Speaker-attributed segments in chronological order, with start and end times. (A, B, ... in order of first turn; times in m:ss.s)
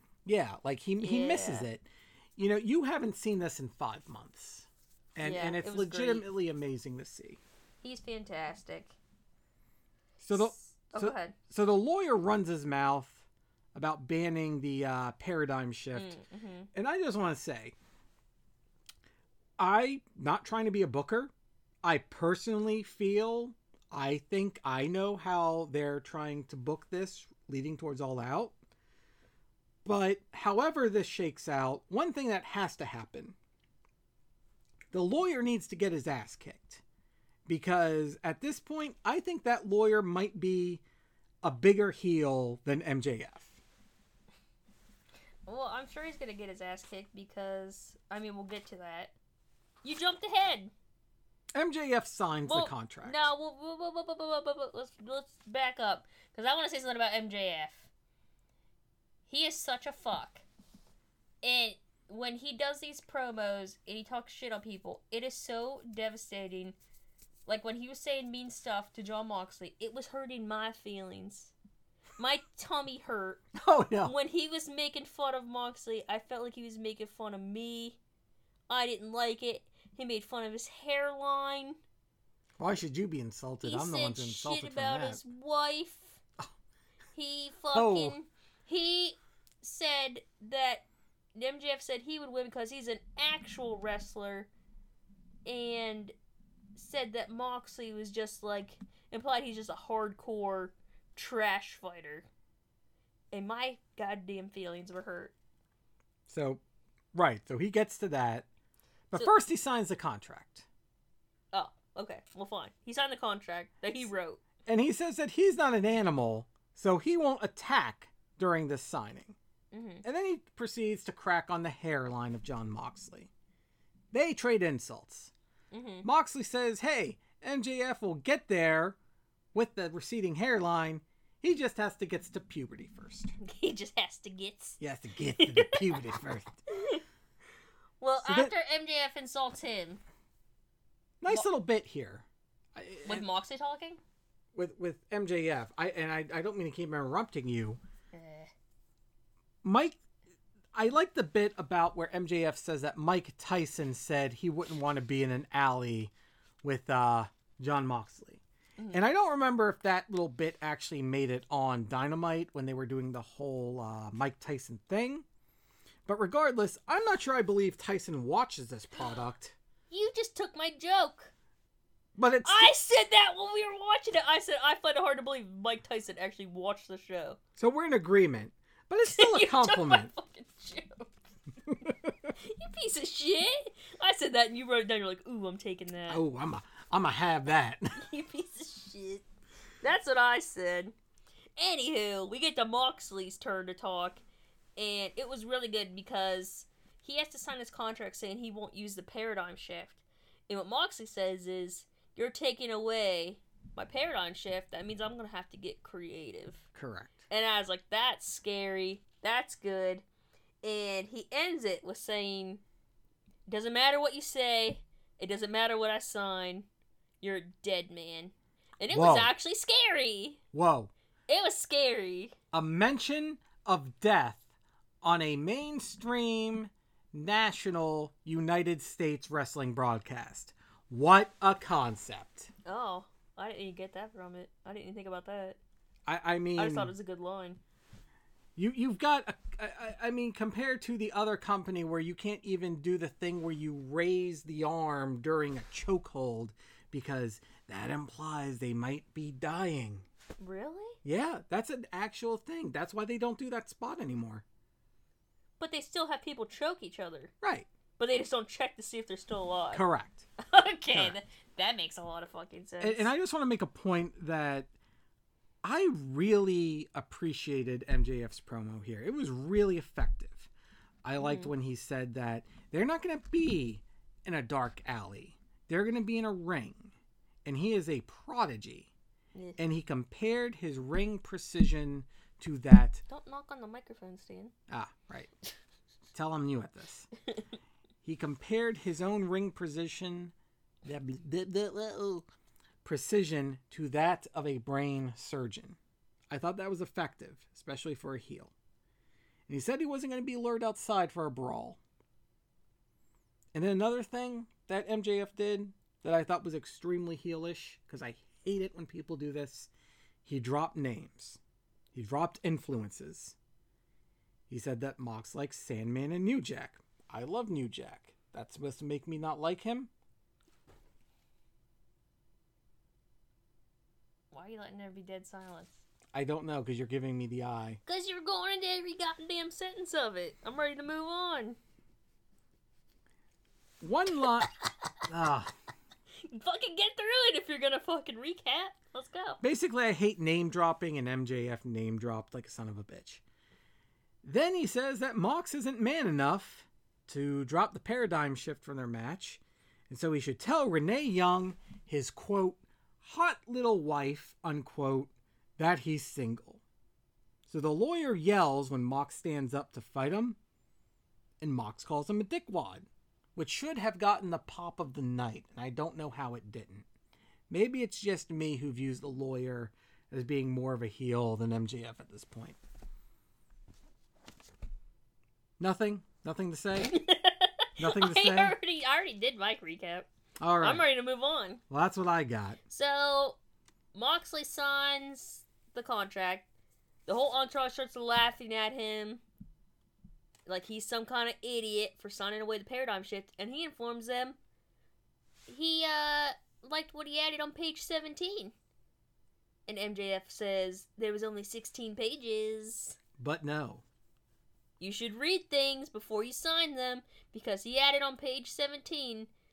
0:00.2-0:07.4 A
0:01.0-0:01.7 B
0:05.2-0:06.3 B
0:07.8-0:09.0 B
0:10.2-0:16.2 A
0:10.3-0:11.3 B
0:15.9-0:16.7 B
0:16.7-0:17.7 A
0:19.6-0:21.3 A
0:21.8-0:28.5 A
0:29.8-0:33.4 A
0:34.9-0:36.8 A
0:37.5-0:40.8 A
0:41.4-0:43.6 A
0:45.4-0:49.1 B
0:49.8-0:50.7 B
0:51.5-0:53.3 A
0:52.5-0:57.9 B
0:59.3-1:00.4 B
1:01.4-1:06.8 B
1:07.4-1:11.5 B
1:12.2-1:13.4 B
1:13.5-1:14.1 A
1:14.0-1:18.0 B
1:18.7-1:21.8 B
1:22.6-1:25.2 A
1:23.6-1:26.2 B
1:27.1-1:34.5 B
1:27.7-1:28.1 A
1:35.4-1:36.1 B
1:36.8-1:42.3 B
1:43.3-1:45.3 B
1:46.3-1:46.6 A
1:47.1-1:48.5 A
1:49.1-1:50.7 A
1:51.5-1:54.4 B
1:54.6-1:59.4 A
1:59.7-2:00.0 B
2:00.0-2:03.3 A
2:04.1-2:05.3 A
2:05.7-2:06.0 B
2:06.0-2:09.0 A
2:09.5-2:13.3 A
2:13.4-2:14.8 B
2:14.8-2:16.6 A
2:15.4-2:17.0 B
2:18.0-2:20.0 B
2:18.2-2:18.5 A
2:21.2-2:23.2 A
2:23.0-2:24.0 B
2:24.5-2:27.8 A
2:28.1-2:28.5 B
2:29.6-2:30.0 A
2:30.7-2:36.1 A
2:36.6-2:38.4 A
2:38.8-2:39.0 B
2:38.9-2:45.2 A
2:46.0-2:49.6 A
2:49.9-2:51.3 B
2:52.2-2:52.7 A
2:52.4-2:57.4 B
2:57.6-3:00.1 A
2:59.1-3:01.2 B
3:01.8-3:02.3 A
3:02.4-3:06.2 B
3:06.1-3:08.0 A
3:08.0-3:09.2 B
3:09.8-3:10.9 B
3:11.6-3:14.2 B
3:14.8-3:26.6 B
3:26.7-3:27.2 A
3:27.3-3:30.0 B
3:30.6-3:32.6 B
3:33.5-3:36.7 B
3:37.2-3:40.4 B
3:38.9-3:39.3 A
3:40.5-3:40.9 A
3:41.3-3:42.3 B
3:42.5-3:44.4 A
3:45.0-3:52.5 A
3:52.6-3:55.6 B
3:56.0-3:56.9 A
3:56.6-3:57.6 B
3:58.6-4:10.0 A
4:10.4-4:11.0 B
4:11.0-4:14.4 A
4:15.6-4:17.3 B
4:17.4-4:17.7 A
4:18.0-4:19.8 B
4:19.7-4:20.3 A
4:20.4-4:23.1 B
4:22.8-4:24.7 A
4:25.6-4:30.5 A
4:31.0-4:36.9 A
4:31.2-4:31.5 B
4:37.4-4:38.9 A
4:39.6-4:43.0 A
4:43.1-4:44.5 B
4:44.7-4:45.3 A
4:46.1-4:47.1 A
4:48.0-4:50.3 A
4:50.8-4:52.2 A
4:52.8-4:55.8 A
4:56.3-4:58.5 A
4:59.5-5:01.8 A
5:03.5-5:09.7 A
5:10.2-5:11.4 A
5:11.9-5:13.4 A
5:14.5-5:19.9 A
5:24.3-5:25.8 B
5:26.1-5:27.8 A
5:27.8-5:31.6 B
5:33.8-5:34.5 A
5:35.0-5:35.5 A
5:36.3-5:39.4 B
5:39.4-5:43.2 A
5:44.2-5:56.6 A
5:57.5-6:00.4 A
6:01.4-6:06.8 A
6:07.5-6:12.6 A
6:15.6-6:16.9 A
6:16.8-6:20.1 B
6:17.8-6:18.6 A
6:20.4-6:20.8 A
6:20.6-6:21.6 B
6:21.7-6:22.6 A
6:22.7-6:23.4 B
6:23.9-6:26.4 B
6:27.1-6:29.2 B
6:30.4-6:34.4 B
6:35.5-6:38.5 B
6:39.7-6:43.0 B
6:43.2-6:43.8 A
6:44.8-6:49.3 B